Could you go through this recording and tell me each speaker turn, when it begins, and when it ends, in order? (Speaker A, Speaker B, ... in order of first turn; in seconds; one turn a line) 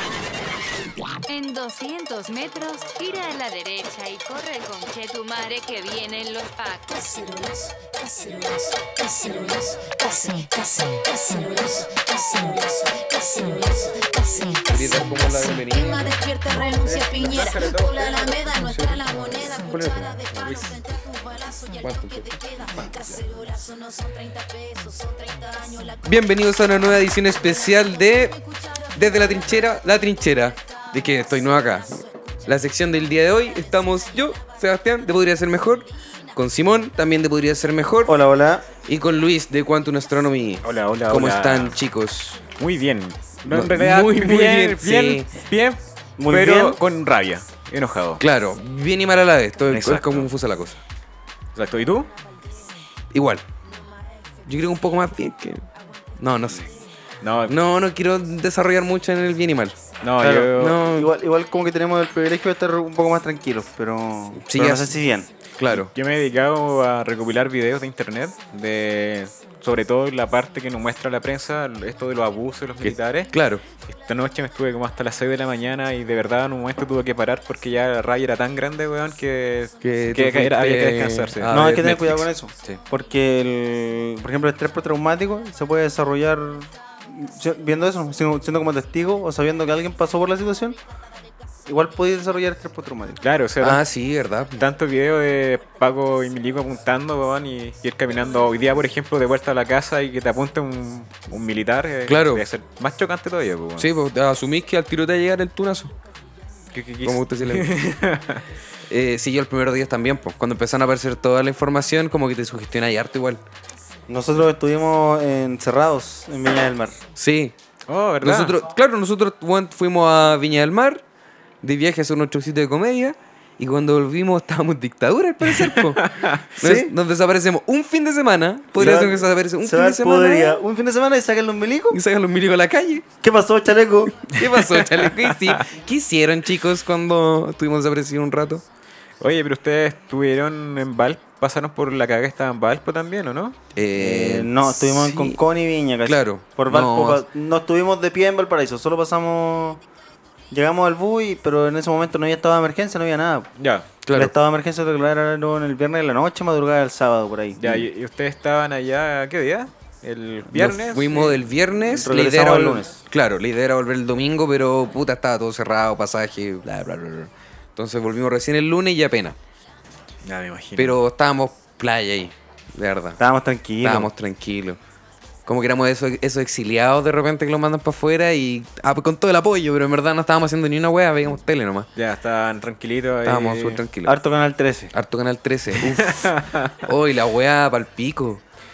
Speaker A: 1.3-7.7
Speaker B: 7.9-26.1
Speaker C: 14.7-20.8
Speaker C: 21.8-22.3
Speaker C: 26.0-28.4
Speaker B: 27.3-29.3
Speaker C: 28.9-38.2
Speaker D: 38.0-38.7
Speaker C: 38.8-42.4
Speaker E: 40.6-41.8
Speaker E: 42.6-48.2
Speaker C: 43.5-45.2
Speaker D: 46.2-46.8
Speaker C: 48.2-50.8
Speaker E: 49.7-50.3
Speaker E: 51.5-52.1
Speaker C: 53.1-53.5
Speaker C: 54.5-55.7
Speaker C: 56.2-56.7
Speaker E: 57.2-57.6
Speaker C: 57.5-61.1
Speaker E: 60.0-60.8
Speaker D: 60.2-65.3
Speaker C: 64.4-64.9
Speaker C: 65.6-65.9
Speaker E: 65.7-73.3
Speaker C: 72.8-73.6
Speaker E: 73.9-82.8
Speaker C: 79.8-82.0
Speaker D: 81.5-90.8
Speaker D: 91.7-93.2
Speaker E: 93.2-93.8
Speaker C: 93.6-94.7
Speaker E: 94.6-103.9
Speaker C: 102.1-102.5
Speaker C: 103.8-105.9
Speaker E: 106.7-108.4
Speaker C: 107.0-107.7
Speaker C: 108.9-113.4
Speaker D: 114.1-117.0
Speaker C: 117.2-117.5
Speaker E: 117.9-118.6
Speaker C: 118.2-121.0
Speaker C: 121.6-130.6
Speaker E: 125.5-126.5
Speaker D: 126.6-126.9
Speaker D: 128.7-132.0
Speaker C: 131.9-133.0
Speaker D: 133.2-134.3
Speaker C: 134.2-138.6
Speaker E: 134.3-135.7
Speaker E: 139.2-143.6
Speaker C: 143.8-145.4
Speaker D: 144.0-149.8
Speaker C: 146.0-147.2
Speaker D: 150.5-153.5
Speaker E: 153.6-153.9
Speaker C: 154.1-154.3
Speaker D: 154.1-157.8
Speaker E: 157.6-161.3
Speaker C: 160.5-169.4
Speaker D: 161.9-163.0
Speaker E: 170.3-171.0
Speaker C: 170.8-173.2
Speaker D: 173.2-174.1
Speaker C: 173.8-174.8
Speaker C: 175.5-181.9
Speaker E: 182.0-183.8
Speaker C: 183.2-184.2
Speaker D: 184.1-184.9
Speaker C: 184.9-188.4
Speaker E: 185.7-186.9